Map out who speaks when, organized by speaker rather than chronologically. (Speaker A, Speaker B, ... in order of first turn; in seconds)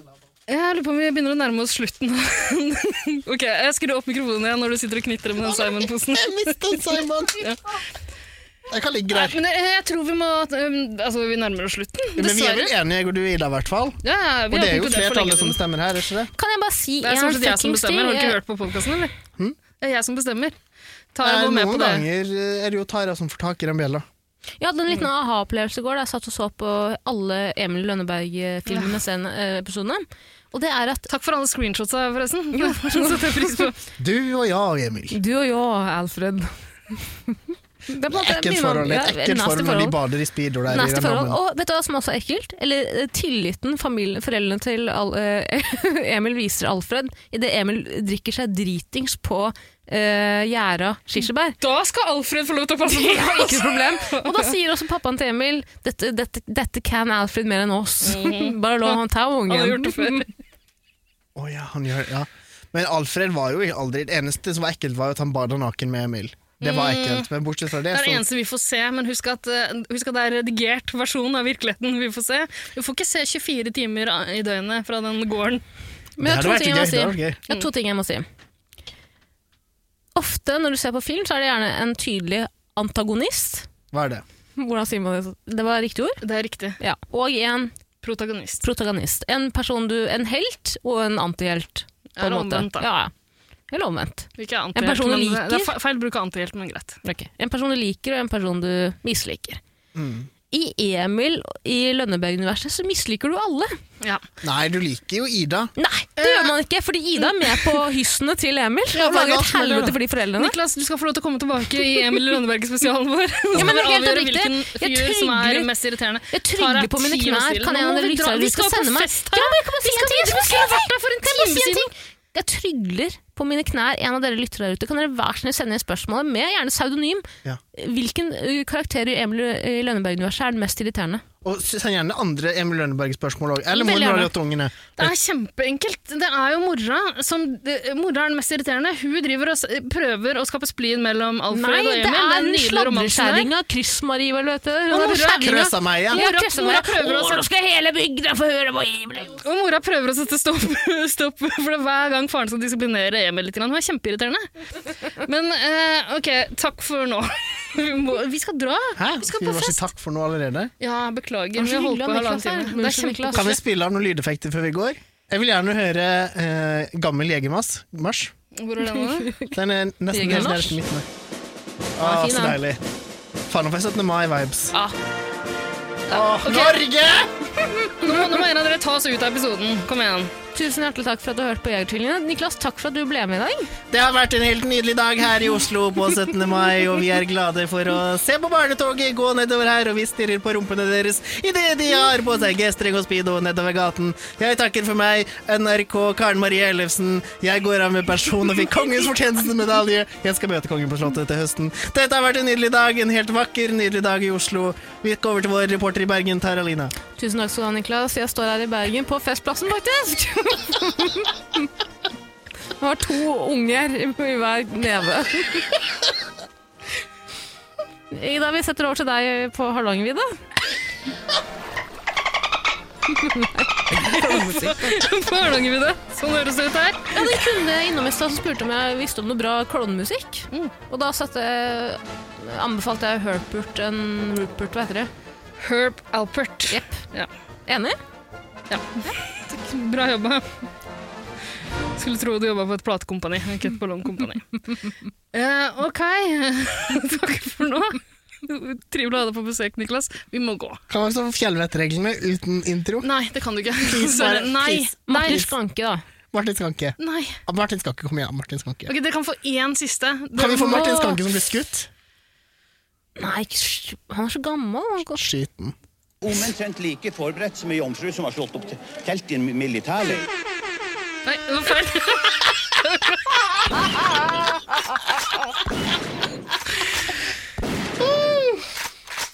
Speaker A: 0.5-7.6, 9.1-12.7, 14.0-15.6, 17.0-19.1, 19.8-20.6, 21.1-22.1, 28.7-29.0, 31.1-33.8, 51.6-54.6, 58.0-60.3, 66.6-67.3, 67.9-75.6, 86.2-86.8, 88.0-88.6, 92.2-92.9, 94.4-97.0, 106.2-106.5, 107.2-107.8, 110.3-121.9, 135.0-143.5, 144.9-145.6, 146.1-147.5, 149.4-154.5, 155.1-159.9, 160.8-163.6, 168.6-169.3, 176.1-176.8, 178.0-180.3, 224.0-227.4, 235.6-237.3, 238.7-240.7, 242.0-244.6, 245.3-250.8, 253.0-255.5, 257.0-257.4, 258.9-261.1, 271.2-273.6
Speaker B: 5.6-7.5, 8.7-9.4, 12.2-16.3, 21.2-24.1, 34.0-35.2, 38.1-41.4, 61.4-68.2, 76.2-77.4, 83.9-84.2, 100.0-100.3, 104.4-105.7, 108.9-110.0, 131.4-135.1, 145.4-146.2, 159.0-160.7, 163.3-168.3, 169.5-171.1, 172.0-172.8, 173.5-174.8, 176.1-177.3, 183.9-206.9, 250.9-253.1, 253.8-255.5, 256.3-258.9, 260.4-261.9, 265.1-265.8, 278.0-278.6
Speaker C: 16.4-18.4, 24.6-31.1, 32.5-33.7, 35.1-40.0, 40.7-51.6, 52.9-60.3, 76.2-78.2, 80.2-83.7, 84.6-86.2, 86.8-87.7, 88.6-93.1, 93.7-95.7, 97.0-99.6, 100.5-103.7, 105.8-110.6, 113.5-115.7, 116.3-131.2, 133.7-134.3, 141.5-149.4, 161.6-163.6, 168.8-169.5, 170.1-170.8, 172.0-172.6, 180.5-183.7, 207.2-211.7, 212.8-215.7, 218.1-220.4, 223.1-225.0, 227.1-235.1, 236.7-237.0, 237.7-238.0, 255.1-256.0, 260.6-261.2, 263.2-265.2
Speaker D: 266.2-270.3